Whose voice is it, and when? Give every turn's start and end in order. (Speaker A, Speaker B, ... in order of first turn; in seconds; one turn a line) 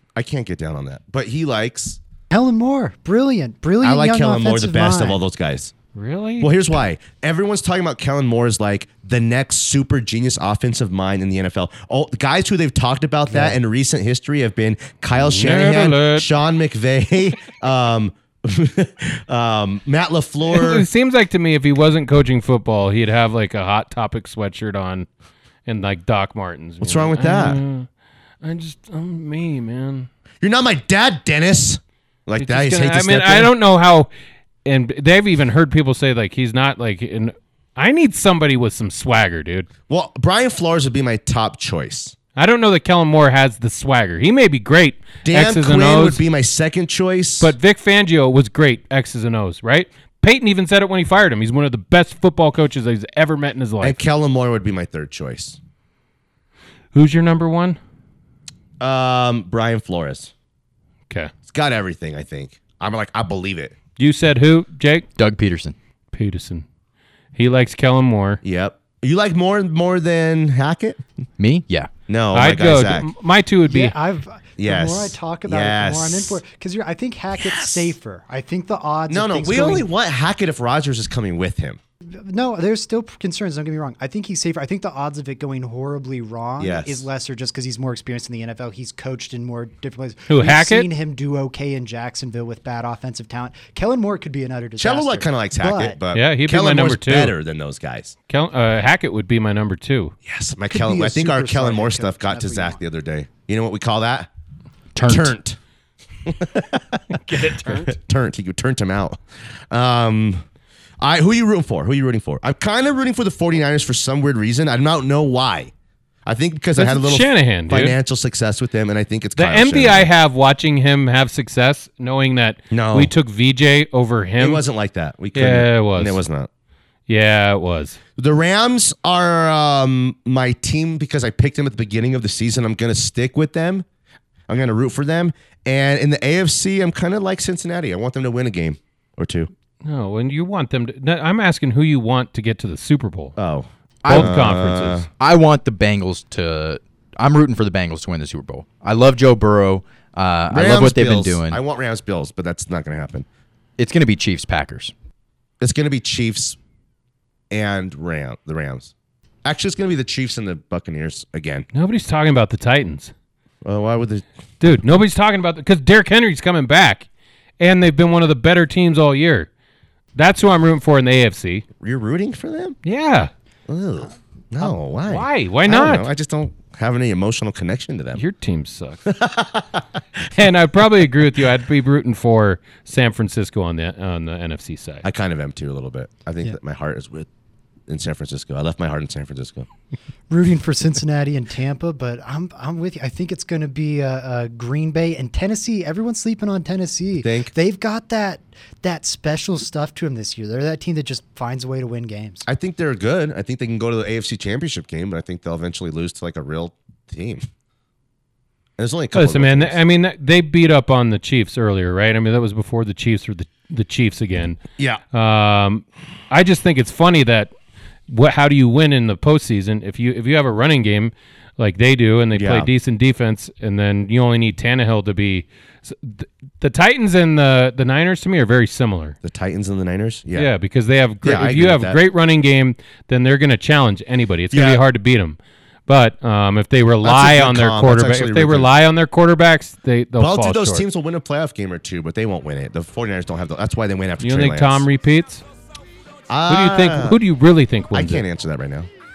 Speaker A: 0.1-2.0
Speaker B: 2.3-5.2
Speaker A: 3.8-5.7
Speaker C: 5.9-6.5
Speaker A: 6.4-20.9
Speaker C: 15.2-16.3
Speaker C: 20.5-25.1
Speaker C: 25.6-27.9
Speaker A: 26.8-27.6
Speaker C: 28.4-30.1
Speaker A: 30.4-33.5
Speaker C: 32.4-34.1
Speaker C: 34.6-39.7
Speaker A: 39.9-42.1
Speaker C: 42.4-46.2
Speaker A: 45.2-47.5
Speaker C: 47.4-54.0
Speaker A: 53.8-55.6
Speaker C: 56.9-57.8
Speaker A: 58.8-60.3
Speaker A: 61.5-63.7
Speaker C: 64.0-65.1
Speaker D: 65.2-65.7
Speaker C: 66.1-66.6
Speaker C: 67.3-68.4
Speaker A: 68.4-71.0
Speaker D: 71.4-71.9
Speaker A: 72.1-73.1
Speaker C: 72.3-74.0
Speaker B: 73.7-79.9
Speaker A: 74.6-76.4
Speaker A: 79.1-81.8
Speaker B: 82.1-96.0
Speaker A: 86.6-87.0
Speaker C: 90.3-90.9
Speaker A: 94.8-98.1
Speaker C: 96.1-97.3
Speaker C: 98.3-100.1
Speaker A: 100.2-104.3
Speaker B: 100.7-102.8
Speaker D: 104.9-105.3
Speaker A: 105.0-105.6
Speaker A: 106.2-109.2
Speaker C: 107.2-107.9
Speaker A: 109.7-110.4
Speaker A: 111.0-115.7
Speaker A: 116.2-120.1
Speaker C: 116.8-118.0
Speaker C: 119.3-124.6
Speaker A: 122.7-123.1
Speaker A: 124.4-126.5
Speaker C: 125.3-126.2
Speaker C: 127.1-128.0
Speaker A: 128.2-133.8
Speaker A: 134.5-139.5
Speaker C: 139.8-143.4
Speaker A: 143.4-145.1
Speaker D: 144.0-144.5
Speaker C: 144.1-145.1
Speaker D: 145.2-151.6
Speaker A: 150.5-153.3
Speaker D: 153.8-154.9
Speaker A: 155.6-156.6
Speaker A: 157.5-158.9
Speaker A: 159.4-161.7
Speaker C: 161.7-163.1
Speaker A: 163.6-164.2
Speaker C: 164.6-167.1
Speaker C: 167.6-169.5
Speaker C: 170.2-171.7
Speaker A: 171.8-172.8
Speaker C: 172.8-173.3
Speaker A: 173.7-178.2
Speaker C: 174.6-176.1
Speaker C: 178.2-179.1
Speaker A: 179.1-179.8
Speaker C: 180.3-185.1
Speaker A: 185.0-187.3
Speaker A: 187.9-189.7
Speaker B: 190.3-202.4
Speaker A: 197.2-197.5
Speaker A: 202.5-207.4
Speaker A: 208.8-209.8
Speaker C: 209.1-214.6
Speaker C: 215.1-217.5
Speaker C: 218.1-229.2
Speaker A: 222.3-222.7
Speaker A: 229.2-230.5
Speaker C: 230.3-240.8
Speaker A: 231.2-232.0
Speaker A: 234.5-234.8
Speaker A: 237.0-238.7
Speaker A: 240.2-244.8
Speaker C: 244.2-245.4
Speaker A: 246.3-247.2
Speaker C: 246.5-248.2
Speaker A: 247.9-248.9